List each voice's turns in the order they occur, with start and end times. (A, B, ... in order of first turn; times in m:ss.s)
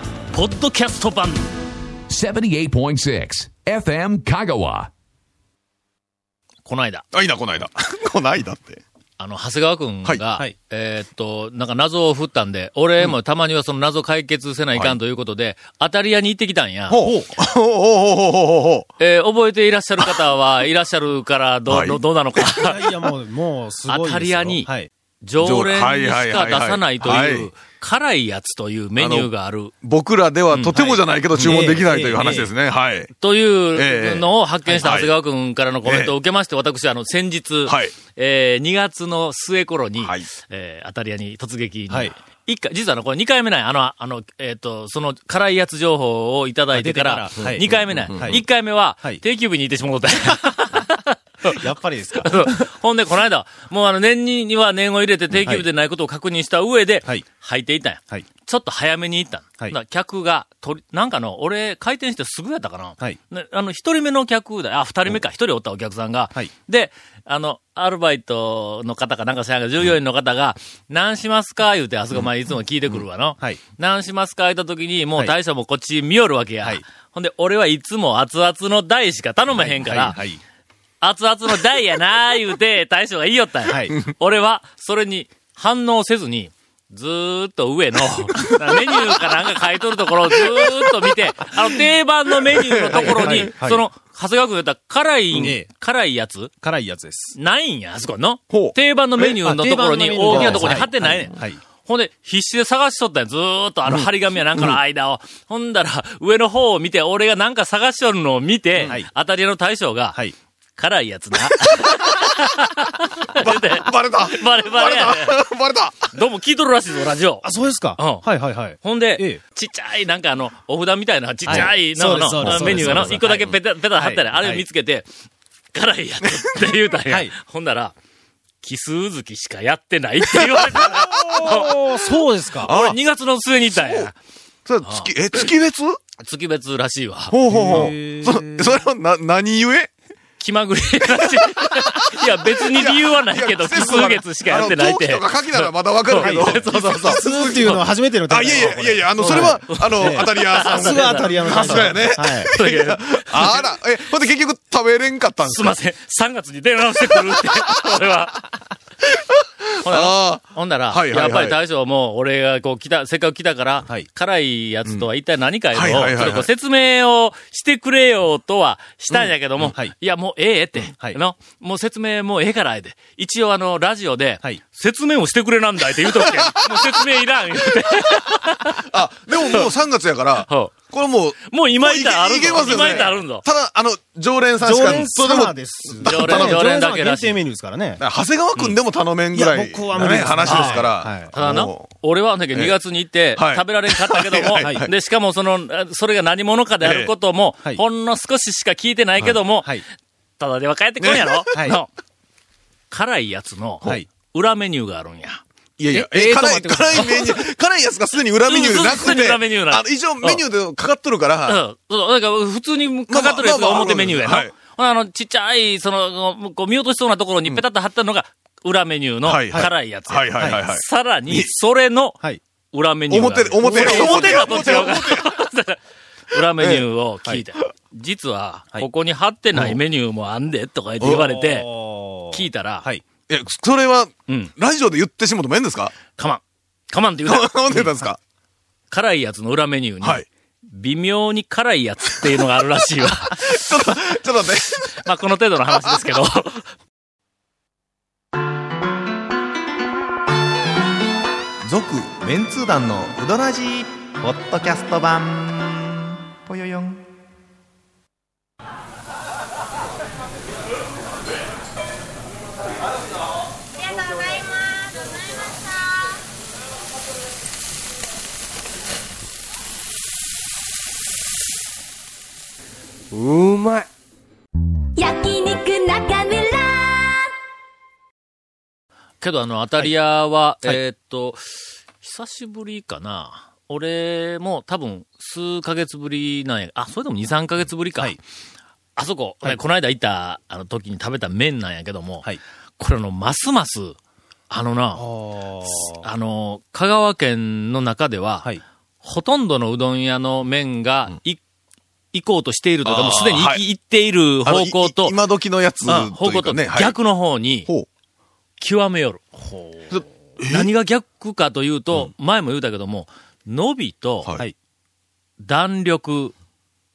0:00.3-0:01.5 A
0:02.1-0:04.9 B
0:06.6-0:07.0 A
0:07.1-0:08.8 C
0:09.2-0:17.1 A
0:16.9-0:18.9 C
0:19.0-0:23.0 A
0:21.7-0:22.6 C
0:22.6-0:24.9 D
0:23.9-0:24.7 A
0:25.2-0:29.7 A
0:25.4-0:27.5 C
0:29.0-0:33.1 C
0:30.5-0:32.5 A
0:31.4-0:32.2 D
0:33.2-0:51.6 A
0:33.7-0:35.1 C
0:35.8-0:36.1 C
0:37.6-0:37.9 C
0:40.0-0:40.3 C
0:41.9-0:42.1 D
0:46.7-0:48.4 D
0:47.4-0:48.4 C
0:51.4-0:52.4 D
0:52.2-1:20.2 A
0:55.4-0:55.6 D
1:19.5-1:20.4 D
1:21.0-1:36.5 A
1:23.7-1:23.9 D
1:28.3-1:29.0 C
1:30.4-1:30.9 C
1:32.4-1:33.5 C
1:32.9-1:33.8 D
1:35.3-1:35.7 D
1:36.6-1:37.3 D
1:37.3-1:55.4 A
1:38.5-1:39.4 C
1:39.4-1:41.6 D
1:43.9-1:44.8 C
1:48.8-1:49.0 C
1:51.6-1:52.3 C
1:53.4-1:56.1 C
1:56.1-1:58.2 A
1:57.4-1:59.4 D
1:58.8-2:05.1 A
2:01.4-2:03.4 D
2:02.4-2:03.6 C
2:03.9-2:04.6 D
2:05.7-2:07.9 A
2:06.2-2:06.9 C
2:07.1-2:07.3 D
2:08.6-2:11.7 A
2:10.3-2:11.8 C
2:10.9-2:12.7 D
2:12.6-2:13.0 C
2:12.6-2:14.1 A
2:13.7-2:14.1 C
2:14.6-2:16.0 C
2:14.8-2:15.4 A
2:16.2-2:17.3 A
2:17.3-2:19.9 C
2:17.5-2:18.8 D
2:20.4-2:27.8 A
2:21.0-2:35.8 C
2:26.1-2:32.5 D
2:29.2-2:33.6 A
2:35.4-2:38.4 A
2:37.0-2:37.9 C
2:39.1-2:41.6 C
2:39.8-2:58.8 A
2:45.7-2:46.5 C
2:49.1-2:49.8 C
2:56.1-2:57.0 C
2:57.6-2:58.2 C
2:58.7-3:06.6 C
3:00.5-3:00.7 A
3:01.5-3:03.4 A
3:02.7-3:03.0 D
3:04.6-3:08.0 D
3:06.0-3:07.4 A
3:08.0-3:12.0 C
3:09.3-3:11.3 D
3:10.4-3:19.8 A
3:12.5-3:12.8 C
3:13.3-3:14.9 C
3:14.6-3:14.9 D
3:16.8-3:17.1 C
3:19.5-3:19.8 D
3:20.4-3:21.9 A
3:21.0-3:21.8 C
3:22.9-3:27.4 A
3:25.8-3:31.6 C
3:25.9-3:27.1 D
3:28.4-3:30.4 A
3:31.5-3:42.2 A
3:33.1-3:34.5 C
3:39.2-3:41.5 C
3:42.7-3:45.8 A
3:43.1-3:45.3 C
3:43.6-3:44.3 D
3:46.3-3:51.7 A
3:46.6-3:46.9 C
3:51.0-3:53.0 D
3:52.3-3:52.8 A
3:53.3-3:55.9 C
3:56.2-3:58.0 A
3:57.2-3:58.2 C
3:58.9-4:03.5 A
4:00.0-4:00.2 C
4:03.2-4:05.0 C
4:05.0-4:06.7 A
4:05.7-4:06.1 C
4:11.6-4:17.0 E
4:23.9-4:25.9 F
4:33.2-4:33.7 D
4:34.9-4:37.3 F
4:39.2-4:41.4 A
4:42.0-4:48.2 A
4:49.0-4:52.3 A
4:52.8-4:54.0 A
4:54.5-4:55.1 A
4:54.9-4:56.0 D
4:55.6-5:01.4 A
5:02.1-5:05.2 A
5:02.8-5:03.6 C
5:04.4-5:07.0 C
5:05.8-5:07.7 A
5:07.5-5:07.9 C
5:08.6-5:14.3 A
5:09.9-5:10.7 C
5:15.4-5:16.3 A